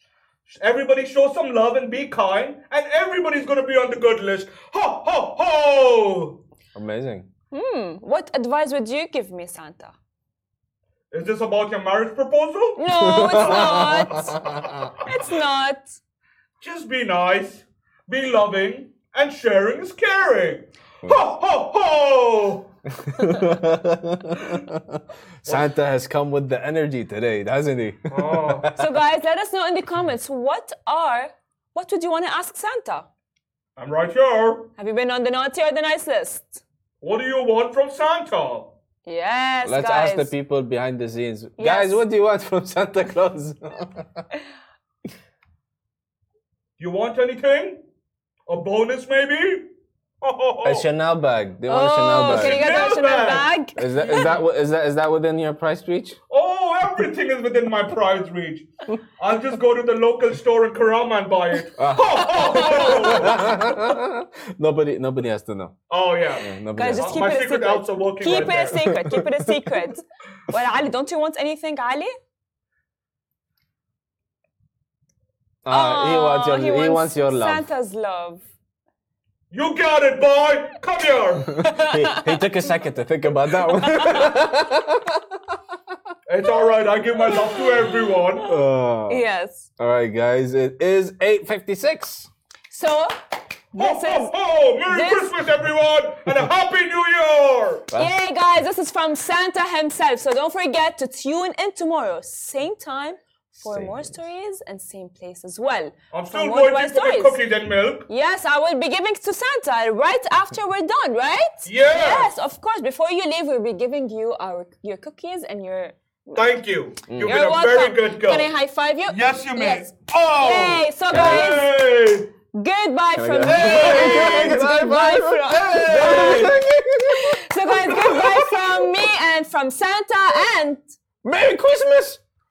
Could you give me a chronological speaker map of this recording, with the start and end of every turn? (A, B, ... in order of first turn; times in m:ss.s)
0:00.5-0:06.4 A
0:06.7-0:07.3 B
0:07.5-0:09.9 C
0:11.1-0:13.9 A
0:12.8-0:14.4 C
0:12.9-0:14.9 B
0:15.0-0:16.0 C
0:16.6-0:22.7 A
0:23.0-0:28.8 B
0:28.1-0:28.7 A
0:28.8-0:33.1 C
0:33.8-0:34.7 A
0:34.8-0:36.6 C
0:37.0-0:38.7 A
0:39.0-0:40.3 C
0:39.6-0:44.2 B
0:41.6-0:42.0 C
0:46.8-0:47.8 A
0:48.5-0:49.7 A
0:50.2-0:50.8 A
0:50.6-0:52.6 B
0:51.7-0:54.3 C
0:52.2-0:53.5 A
0:53.8-0:56.2 B
0:56.3-0:58.7 A
0:59.2-1:03.5 A
1:01.8-1:05.8 B
1:02.4-1:03.5 C
1:05.9-1:09.0 A
1:06.4-1:07.2 B
1:06.7-1:12.1 C
1:08.3-1:09.5 B
1:15.6-1:17.7 B
1:15.7-1:18.4 C
1:19.5-1:21.6 A
1:21.5-1:25.5 B
1:21.5-1:22.4 C
1:23.7-1:24.3 C
1:26.3-1:28.5 A
1:27.2-1:28.4 C
1:28.4-1:29.2 B
1:29.1-1:29.7 C
1:29.8-1:32.3 B
1:32.7-1:33.1 C
1:33.7-1:34.3 C
1:33.8-1:37.8 A
1:34.8-1:35.4 C
1:37.9-1:47.4 C
1:43.6-1:44.1 B
1:46.1-1:48.1 A
1:48.1-1:56.5 C
1:51.6-1:52.3 A
1:56.3-1:58.5 A
1:57.1-1:57.4 B
1:57.2-2:01.7 C
1:59.1-2:02.3 A
2:01.1-2:01.5 B
2:02.5-2:06.5 C
2:03.1-2:08.3 B
2:03.4-2:04.6 A
2:05.5-2:06.5 A
2:07.1-2:10.9 C
2:08.1-2:08.4 A
2:11.2-2:12.2 B